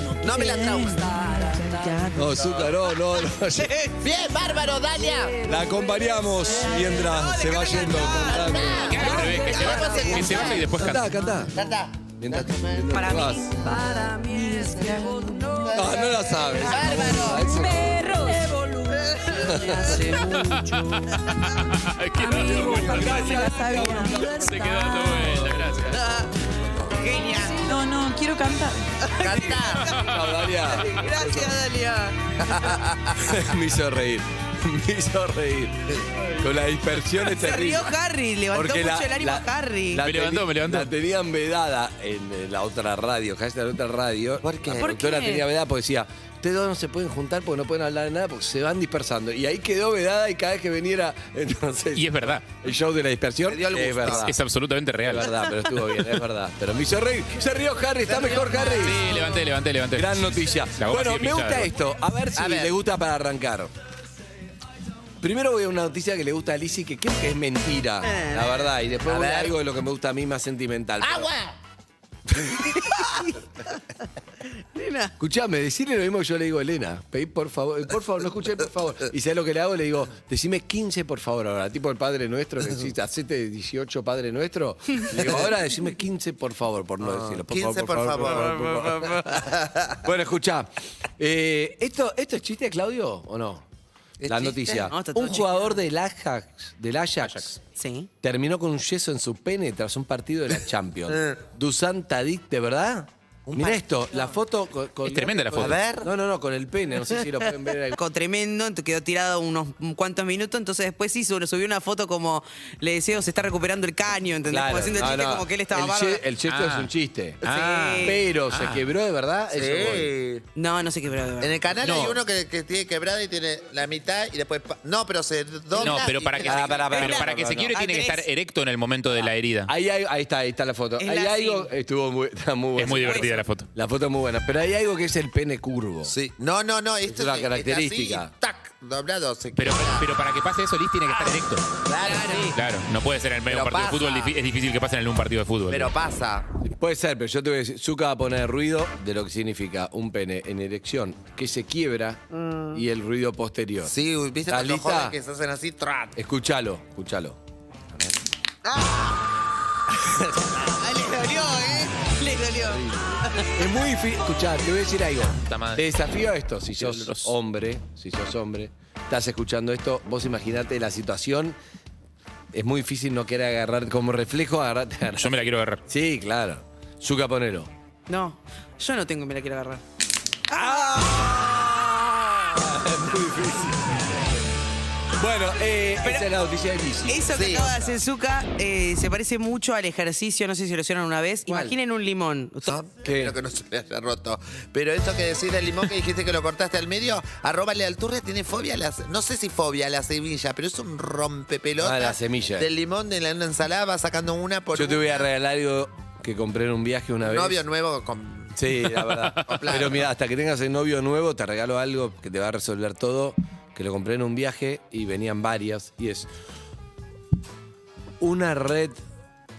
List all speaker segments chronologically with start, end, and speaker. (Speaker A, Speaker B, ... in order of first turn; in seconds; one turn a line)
Speaker A: 0.2-1.2
Speaker B: 0.2-2.4
Speaker C: 2.1-3.7
Speaker D: 3.5-4.0
Speaker A: 4.0-5.4
Speaker C: 5.4-9.3
Speaker D: 6.5-10.6
Speaker A: 8.2-10.7
Speaker E: 8.8-11.1
Speaker C: 10.7-11.5
Speaker A: 11.6-13.2
Speaker C: 12.2-13.5
Speaker D: 12.9-16.2
Speaker B: 14.3-15.4
Speaker A: 15.6-16.0
Speaker C: 15.7-18.1
Speaker A: 16.5-17.6
Speaker B: 17.3-19.1
Speaker D: 18.4-20.9
Speaker C: 19.4-20.2
Speaker E: 20.2-23.4
Speaker C: 22.3-26.0
Speaker D: 22.4-23.1
Speaker B: 22.8-25.0
Speaker E: 24.0-26.0
Speaker D: 25.9-27.8
Speaker B: 27.6-28.9
Speaker D: 29.0-29.9
Speaker A: 29.2-29.9
Speaker C: 30.0-31.6
Speaker D: 30.7-32.3
Speaker A: 32.4-33.4
Speaker C: 33.2-37.9
Speaker D: 37.2-40.0
Speaker C: 38.5-54.4
Speaker E: 40.0-40.9
Speaker A: 44.4-45.0
Speaker D: 44.8-45.4
Speaker E: 52.0-52.5
Speaker A: 53.5-54.3
Speaker E: 54.1-55.4
Speaker C: 55.0-59.1
Speaker D: 58.1-59.2
Speaker E: 58.6-61.7
Speaker C: 59.9-63.7
Speaker A: 62.4-62.7
Speaker C: 65.2-71.3
Speaker D: 68.1-68.4
Speaker A: 69.0-69.5
Speaker A: 71.0-71.5
Speaker C: 72.3-73.1
Speaker D: 72.8-73.3
Speaker D: 74.7-75.1
Speaker C: 75.2-89.2
Speaker A: 87.0-88.7
Speaker D: 88.2-89.4
Speaker A: 89.3-90.0
Speaker C: 90.0-93.7
Speaker A: 94.2-94.9
Speaker C: 94.2-97.5
Speaker D: 94.8-95.8
Speaker E: 97.2-97.5
Speaker D: 97.8-98.1
Speaker C: 98.2-108.0
Speaker A: 103.5-103.8
Speaker E: 105.1-105.8
Speaker A: 105.6-106.1
Speaker D: 108.0-116.2
Speaker C: 114.5-117.5
Speaker E: 116.4-118.9
Speaker D: 117.5-118.2
Speaker C: 118.0-120.1
Speaker A: 119.5-120.4
Speaker D: 120.5-121.7
Speaker A: 121.4-127.6
Speaker E: 121.8-122.2
Speaker D: 125.8-128.3
Speaker E: 125.8-129.7
Speaker C: 126.4-127.8
Speaker C: 129.7-136.1
Speaker D: 131.0-131.7
Speaker E: 132.8-133.7
Speaker D: 132.9-133.3
Speaker A: 136.1-140.1
Speaker C: 137.0-138.3
Speaker E: 139.6-141.7
Speaker A: 141.1-142.6
Speaker D: 142.0-142.5
Speaker E: 142.5-145.9
Speaker A: 143.5-144.3
Speaker A: 145.7-146.5
Speaker C: 146.6-153.9
Speaker D: 152.3-152.8
Speaker A: 153.8-156.2
Speaker C: 154.5-155.2
Speaker C: 156.2-157.4
Speaker D: 158.7-159.2
Speaker D: 160.7-163.5
Speaker C: 162.6-171.6
Speaker E: 165.4-165.8
Speaker E: 166.8-167.3
Speaker C: 172.5-175.3
Speaker E: 175.2-175.8
Speaker C: 175.9-177.7
Speaker D: 178.1-179.8
Speaker C: 180.5-184.3
Speaker C: 185.1-188.0
Speaker D: 186.0-186.3
Speaker D: 187.1-192.8
Speaker A: 187.3-187.7
Speaker C: 191.5-191.8
Speaker A: 192.7-205.3
Speaker C: 193.0-193.3
Speaker C: 201.8-202.7
Speaker C: 204.7-207.6
Speaker A: 207.2-210.1
Speaker C: 208.6-216.3
Speaker C: 218.2-219.0